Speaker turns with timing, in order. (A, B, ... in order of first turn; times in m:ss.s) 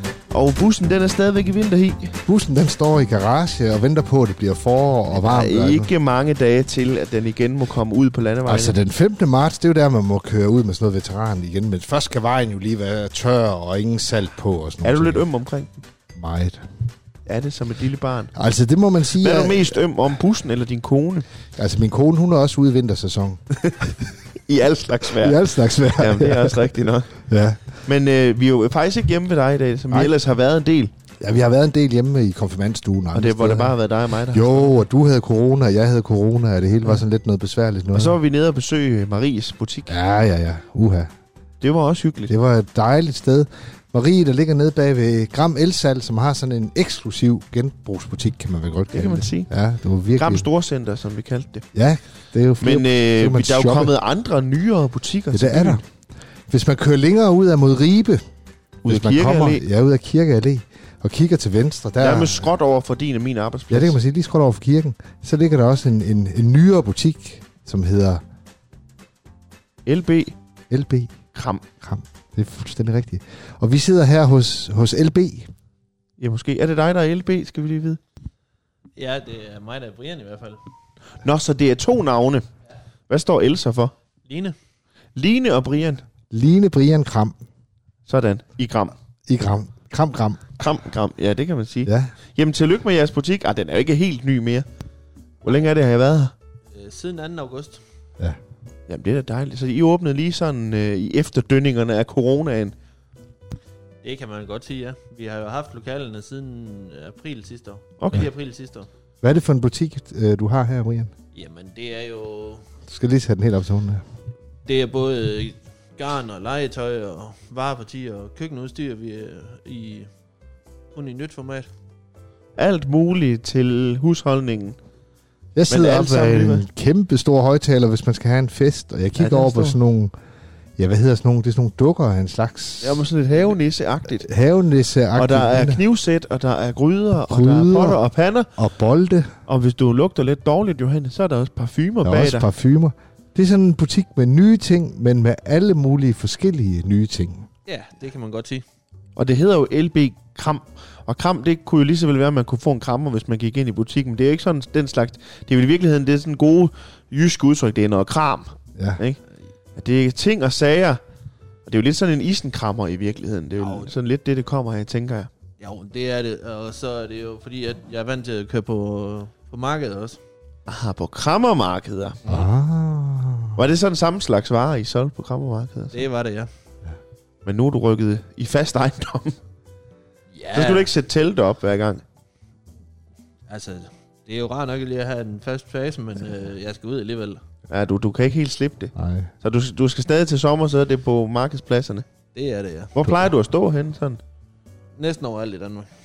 0:00.3-0:02.2 A
0:02.3-0:05.9 B
0:05.1-0:08.8 A
0:08.4-0:15.3 B
0:14.8-0:15.8 A
0:16.1-0:16.7 B
0:17.3-0:18.3 A
0:18.4-0:19.8 B
0:19.1-0:21.3 A
0:21.6-0:23.4 B
0:23.6-0:27.2 A
0:25.2-0:27.7 B
0:27.8-0:30.9 A
0:31.2-0:33.8 B
0:33.1-0:34.7 A
0:34.3-0:38.2 B
0:37.9-0:40.0 A
0:39.9-0:41.1 B
0:41.6-0:42.3 A
0:42.3-0:50.5 B
0:48.9-0:49.5 A
0:50.2-0:51.7 A
0:51.7-0:53.9 B
0:52.6-0:55.8 A
0:55.3-0:55.8 B
0:56.5-0:58.2 B
0:58.8-1:02.5 B
0:58.8-0:59.6 A
1:02.0-1:04.0 A
1:03.7-1:08.2 B
1:09.9-1:10.4 A
1:10.7-1:11.2 B
1:11.3-1:11.6 A
1:11.8-1:15.5 B
1:16.2-1:18.0 A
1:19.0-1:20.6 C
1:21.2-1:22.4 A
1:23.1-1:23.9 A
1:24.3-1:24.6 C
1:25.2-1:26.0 A
1:26.3-1:27.4 B
1:28.1-1:29.0 A
1:29.3-1:30.4 B
1:30.6-1:34.7 A
1:31.9-1:32.1 B
1:35.4-1:36.3 A
1:36.7-1:37.8 C
1:38.9-1:42.8 A
1:44.0-1:48.9 C
1:48.0-1:48.3 A
1:49.2-1:51.1 B
1:51.3-1:52.6 C
1:52.9-1:54.0 B
1:54.7-2:00.1 C
2:00.9-2:01.7 C
2:02.6-2:04.8 A
2:05.6-2:10.1 B
2:05.7-2:06.6 A
2:09.2-2:09.8 A
2:10.8-2:13.1 B
2:12.8-2:14.3 A
2:14.2-2:15.8 B
2:15.2-2:18.5 A
2:17.3-2:18.0 B
2:18.6-2:19.3 B
2:19.5-2:22.5 A
2:22.0-2:27.5 B
2:27.7-2:28.6 C
2:29.2-2:39.2 A
2:39.8-2:41.0 A
2:41.7-2:45.3 A
2:43.6-2:43.9 C
2:45.6-2:50.2 C
2:50.7-2:52.2 A
2:52.3-2:53.6 B
2:53.6-2:56.1 A
2:55.9-2:56.5 C
2:57.4-2:59.4 A
3:00.3-3:00.9 C
3:00.5-3:02.0 A
3:03.5-3:07.4 C
3:07.7-3:12.1 A
3:09.0-3:09.3 B
3:12.3-3:13.0 C
3:13.0-3:14.2 A
3:13.0-3:13.3 B
3:15.0-3:15.9 C